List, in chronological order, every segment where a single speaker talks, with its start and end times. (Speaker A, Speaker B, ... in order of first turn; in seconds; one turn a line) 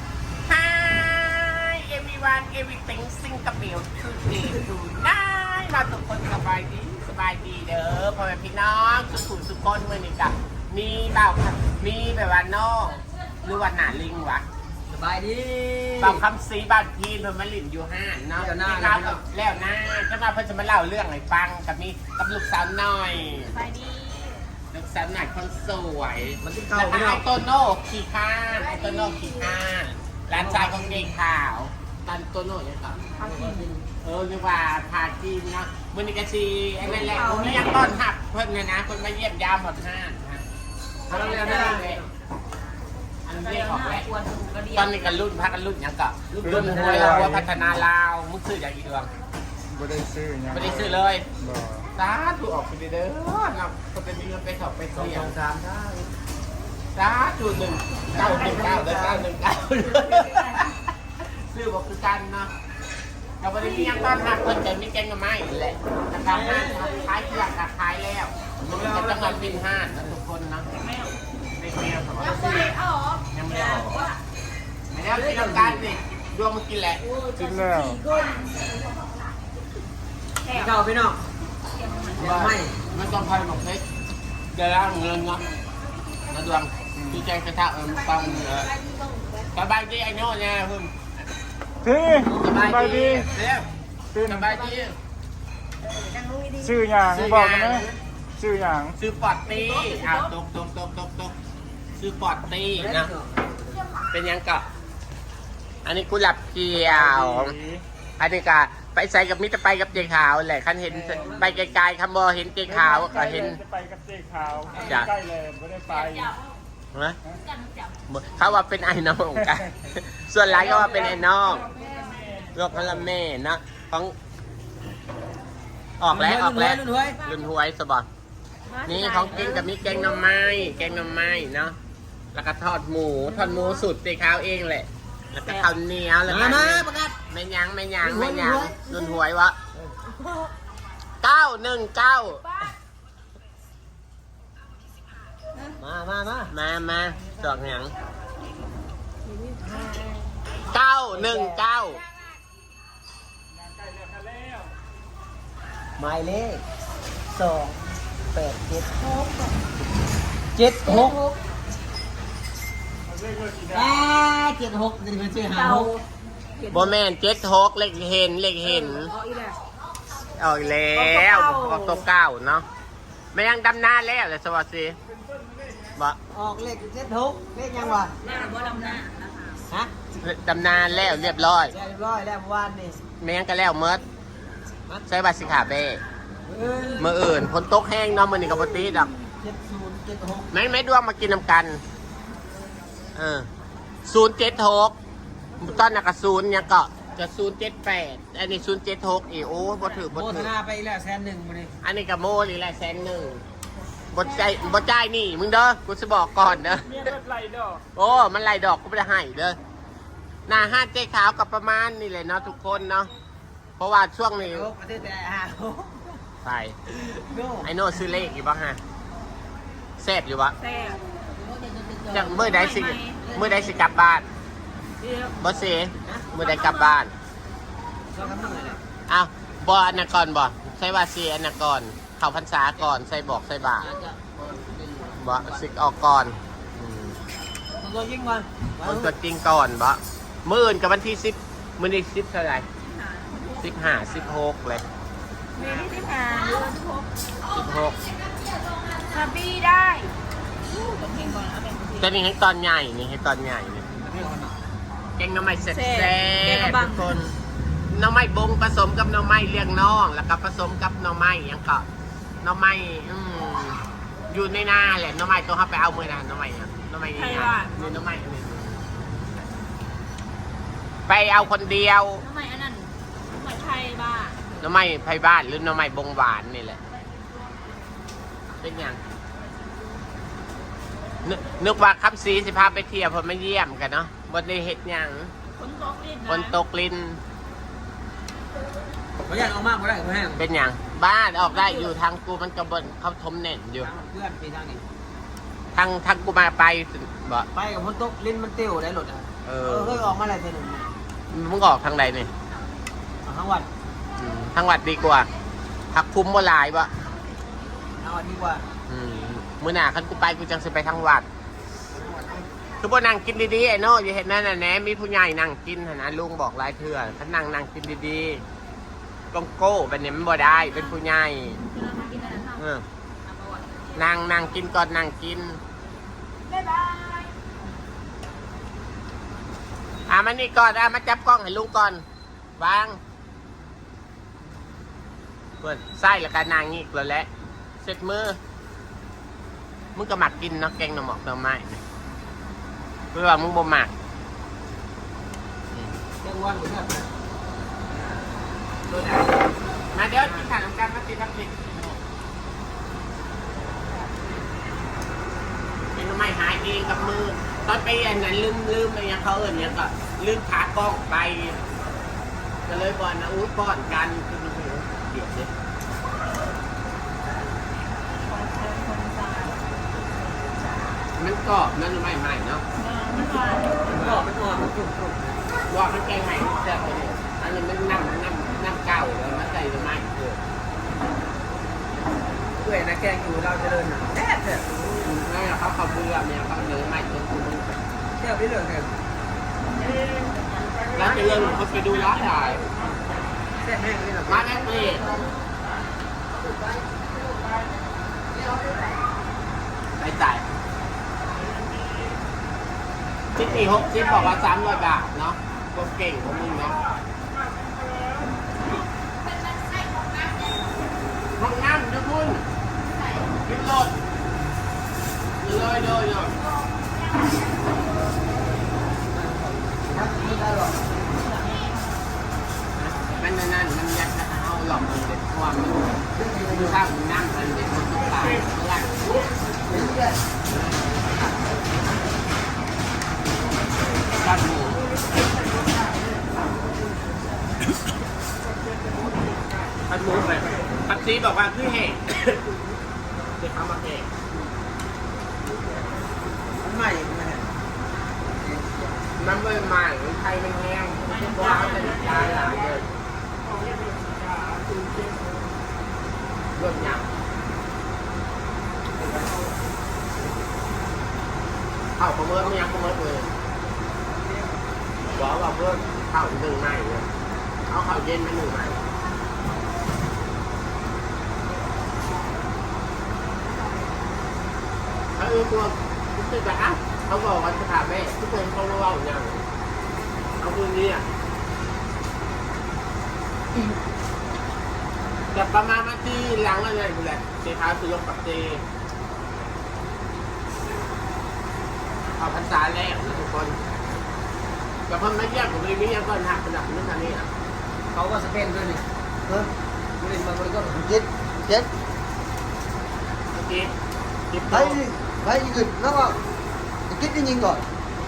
Speaker A: 0.5-14.4
Speaker B: 14.9-16.2
Speaker A: 16.0-23.6
Speaker B: 18.4-19.2
Speaker C: 23.5-24.5
Speaker A: 24.7-33.0
Speaker B: 26.4-27.2
Speaker C: 28.5-29.6
Speaker B: 30.3-31.1
Speaker B: 33.1-33.8
Speaker C: 33.1-33.7
Speaker A: 34.0-40.4
Speaker C: 36.8-38.0
Speaker A: 41.1-42.0
Speaker B: 41.1-42.1
Speaker C: 41.1-41.8
Speaker A: 43.2-44.1
Speaker C: 43.3-45.1
Speaker A: 44.7-49.1
Speaker B: 46.3-47.3
Speaker D: 46.4-47.5
Speaker D: 49.7-51.9
Speaker A: 50.5-51.2
Speaker A: 51.9-55.4
Speaker B: 54.9-56.1
Speaker A: 56.9-62.5
Speaker B: 58.1-59.2
Speaker C: 59.9-60.6
Speaker A: 63.4-70.7
Speaker B: 66.2-66.9
Speaker B: 68.6-69.6
Speaker C: 70.8-71.1
Speaker A: 71.6-72.7
Speaker C: 72.2-74.2
Speaker A: 73.3-74.0
Speaker A: 74.9-77.0
Speaker B: 75.1-75.8
Speaker C: 77.0-79.2
Speaker D: 77.4-78.0
Speaker C: 80.4-80.8
Speaker B: 80.5-81.2
Speaker C: 81.7-82.3
Speaker B: 82.2-82.8
Speaker A: 82.2-83.8
Speaker A: 84.5-85.4
Speaker A: 86.3-88.7
Speaker D: 87.0-87.2
Speaker C: 88.1-89.5
Speaker A: 89.5-90.9
Speaker D: 91.8-93.3
Speaker B: 92.1-92.7
Speaker A: 92.4-94.9
Speaker D: 94.1-94.4
Speaker B: 96.2-96.6
Speaker D: 96.6-97.9
Speaker A: 97.1-98.0
Speaker D: 98.4-98.9
Speaker A: 99.0-101.3
Speaker C: 99.5-100.3
Speaker A: 102.0-103.1
Speaker B: 102.7-103.8
Speaker A: 104.1-104.7
Speaker A: 105.8-107.6
Speaker D: 106.8-107.8
Speaker A: 108.2-113.6
Speaker B: 110.8-111.7
Speaker D: 112.7-116.3
Speaker C: 114.7-115.0
Speaker A: 114.8-115.1
Speaker C: 115.9-116.3
Speaker C: 117.5-118.0
Speaker A: 118.1-121.7
Speaker C: 121.9-122.5
Speaker A: 122.5-124.1
Speaker A: 126.0-128.1
Speaker B: 126.1-127.2
Speaker C: 128.7-129.7
Speaker A: 128.8-131.8
Speaker B: 129.3-129.6
Speaker A: 132.3-139.6
Speaker C: 133.4-133.7
Speaker C: 135.3-135.7
Speaker B: 136.2-137.1
Speaker B: 138.0-138.8
Speaker A: 141.2-142.4
Speaker B: 145.8-146.5
Speaker A: 146.5-147.9
Speaker A: 150.7-152.0
Speaker B: 151.1-151.6
Speaker D: 154.0-154.6
Speaker B: 156.0-156.6
Speaker B: 157.3-159.4
Speaker B: 160.5-161.2
Speaker C: 160.8-161.4
Speaker D: 163.1-163.6
Speaker B: 163.7-165.9
Speaker C: 165.5-166.0
Speaker C: 166.6-166.9
Speaker A: 166.7-169.1
Speaker C: 168.6-169.6
Speaker A: 170.4-172.7
Speaker C: 170.9-172.1
Speaker A: 173.3-175.0
Speaker B: 176.3-178.1
Speaker C: 178.2-179.6
Speaker A: 180.2-181.7
Speaker B: 181.7-183.0
Speaker A: 183.2-184.0
Speaker A: 185.1-186.0
Speaker B: 186.4-187.1
Speaker A: 187.0-189.1
Speaker B: 189.4-190.5
Speaker A: 190.5-191.8
Speaker A: 193.2-193.5
Speaker A: 194.1-194.9
Speaker A: 195.6-200.5
Speaker B: 200.1-201.7
Speaker A: 201.8-203.4
Speaker A: 204.1-207.1
Speaker D: 207.0-207.8
Speaker A: 207.9-209.6
Speaker A: 210.5-213.1
Speaker A: 213.8-214.7
Speaker B: 214.4-216.2
Speaker A: 216.4-216.8
Speaker B: 216.9-217.8
Speaker A: 217.6-218.8
Speaker A: 220.0-220.5
Speaker C: 220.6-221.0
Speaker B: 221.4-222.7
Speaker A: 222.1-224.3
Speaker C: 222.3-223.2
Speaker B: 223.2-223.9
Speaker C: 225.0-225.5
Speaker A: 225.4-227.1
Speaker B: 226.0-226.3
Speaker C: 226.3-227.0
Speaker B: 228.1-228.8
Speaker A: 229.1-233.9
Speaker B: 233.8-235.7
Speaker A: 235.2-237.2
Speaker B: 237.8-239.1
Speaker A: 238.8-242.7
Speaker C: 242.8-244.0
Speaker A: 243.6-244.8
Speaker C: 245.6-247.1
Speaker A: 247.5-247.9
Speaker C: 248.9-250.1
Speaker C: 250.7-252.2
Speaker A: 252.0-253.9
Speaker B: 253.9-254.7
Speaker A: 255.2-257.3
Speaker C: 255.7-257.2
Speaker A: 257.9-261.9
Speaker A: 262.4-268.8
Speaker C: 267.1-268.0
Speaker A: 271.1-272.2
Speaker C: 272.2-274.6
Speaker A: 274.6-276.8
Speaker A: 278.5-279.0
Speaker A: 281.2-285.3
Speaker C: 285.4-286.6
Speaker A: 286.3-287.2
Speaker B: 289.2-290.4
Speaker A: 290.4-293.9
Speaker C: 291.4-291.9
Speaker B: 293.8-294.9
Speaker A: 295.7-297.5
Speaker B: 297.5-300.9
Speaker A: 299.4-300.1
Speaker A: 301.3-302.3
Speaker B: 303.2-303.7
Speaker A: 304.2-305.3
Speaker A: 305.9-306.9
Speaker B: 308.0-308.6
Speaker A: 308.9-311.2
Speaker B: 312.0-312.4
Speaker A: 312.8-318.4
Speaker A: 319.3-321.6
Speaker C: 320.3-321.0
Speaker C: 321.5-322.7
Speaker A: 322.6-322.8
Speaker C: 323.2-324.1
Speaker A: 323.9-325.6
Speaker C: 326.5-327.3
Speaker A: 330.1-332.0
Speaker A: 332.6-333.0
Speaker A: 335.6-337.3
Speaker A: 337.8-338.4
Speaker A: 339.9-341.8
Speaker A: 343.1-343.9
Speaker B: 346.2-347.1
Speaker A: 348.9-349.3
Speaker A: 349.9-352.0
Speaker A: 355.9-361.6
Speaker A: 362.6-365.5
Speaker C: 368.2-369.6
Speaker A: 371.1-372.6
Speaker C: 372.8-374.3
Speaker B: 373.9-375.4
Speaker A: 375.7-380.4
Speaker B: 382.3-384.7
Speaker A: 385.0-387.8
Speaker B: 388.2-389.0
Speaker A: 390.9-392.6
Speaker C: 391.8-392.2
Speaker B: 393.6-394.9
Speaker A: 394.2-395.2
Speaker A: 399.9-400.4
Speaker A: 403.3-406.8
Speaker A: 411.4-412.4
Speaker A: 413.4-413.9
Speaker A: 415.4-416.4
Speaker B: 419.1-420.5
Speaker C: 420.0-420.5
Speaker C: 421.1-422.0
Speaker A: 422.8-429.3
Speaker E: 429.8-430.1
Speaker A: 430.5-431.5
Speaker A: 434.2-434.8
Speaker A: 439.9-442.4
Speaker A: 443.4-444.1
Speaker B: 446.6-447.5
Speaker B: 448.3-449.1
Speaker A: 449.1-452.9
Speaker C: 451.1-452.8
Speaker D: 454.0-454.9
Speaker A: 456.5-457.1
Speaker B: 459.0-459.3
Speaker A: 462.0-463.3
Speaker B: 464.2-464.6
Speaker A: 465.1-467.1
Speaker A: 467.7-468.8
Speaker A: 475.1-479.4
Speaker A: 480.4-481.1
Speaker A: 485.3-488.6
Speaker A: 492.1-493.8
Speaker A: 494.9-497.3
Speaker B: 497.9-498.8
Speaker B: 500.0-501.0
Speaker A: 503.3-503.7
Speaker A: 504.3-504.8
Speaker E: 504.6-506.1
Speaker E: 506.9-507.6